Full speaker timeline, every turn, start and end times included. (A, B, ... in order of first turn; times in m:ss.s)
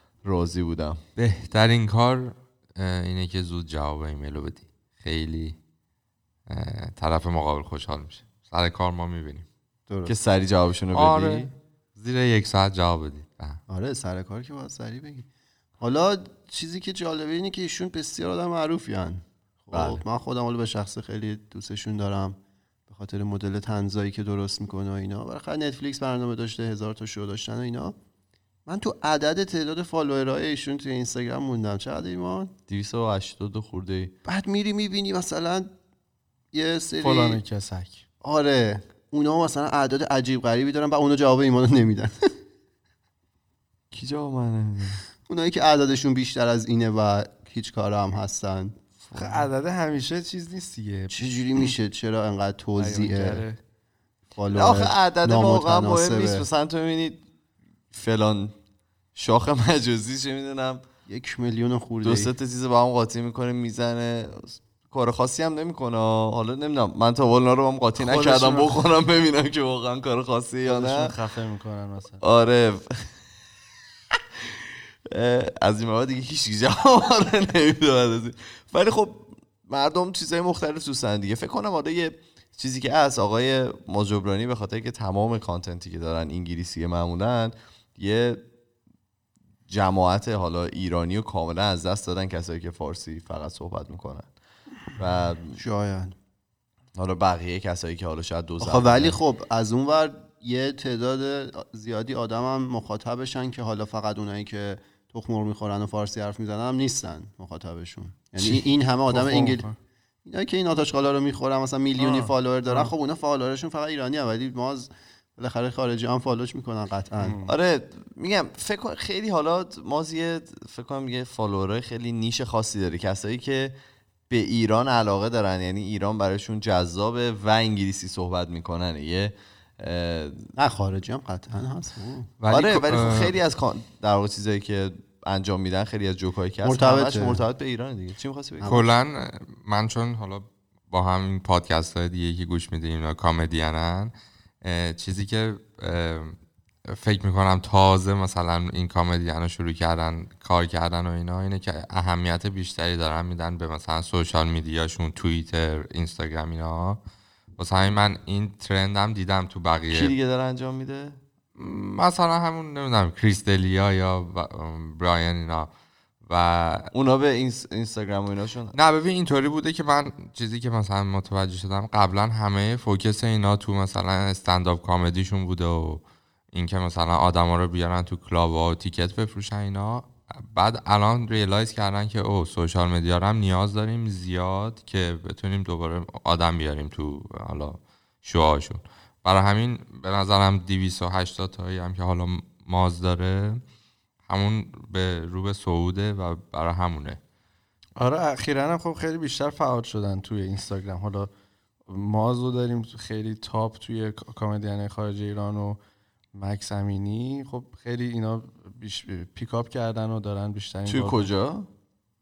0:00.2-0:01.0 A
0:01.2-0:05.6 B
0:06.4-0:09.4 B
0:09.9-0:10.1 C
0:10.0-0:11.5 A
0:10.9-0:13.6 B
0:13.7-0:15.3 C
0:15.8-0:22.4 C
0:19.7-0:20.0 A
0:22.9-0:27.9 C
0:28.6-0:32.5 C
0:32.7-0:34.1 A
0:34.2-0:35.7 C
0:36.5-0:37.4 C
0:37.0-0:38.0 D
0:38.2-0:42.3 C
0:43.9-0:45.0 A
0:45.3-0:48.7 C
0:49.1-0:49.5 A
0:49.1-0:51.7 D
0:51.1-0:53.4 C
0:52.8-0:53.6 D
0:54.4-0:56.4 C
0:54.5-0:57.2 A
0:57.9-0:58.5 A
0:59.1-1:00.8 A
1:01.1-1:02.3 C
1:02.0-1:11.1 A
1:08.0-1:08.7 D
1:10.6-1:12.2 D
1:12.2-1:13.1 A
1:15.1-1:28.4 A
1:29.7-1:34.3 A
1:34.9-1:35.6 A
1:35.6-1:36.1 C
1:37.0-1:39.2 A
1:38.6-1:49.6 C
1:48.4-1:49.8 D
1:50.2-1:57.4 C
1:52.0-1:52.9 D
1:57.2-1:57.5 D
1:57.4-2:03.7 A
2:04.3-2:10.5 A
2:10.6-2:12.3 C
2:12.4-2:13.4 B
2:12.5-2:18.8 A
2:16.6-2:17.4 C
2:18.6-2:18.9 C
2:18.6-2:26.4 B
2:26.9-2:37.0 B
2:37.6-2:40.1 B
2:39.9-2:41.2 A
2:41.6-2:45.7 B
2:46.2-2:46.9 B
2:46.9-2:48.7 A
2:48.7-3:13.6 B
3:14.3-3:17.2 B
3:18.0-3:21.3 D
3:21.9-3:25.8 D
3:26.3-3:31.3 D
3:30.9-3:31.7 A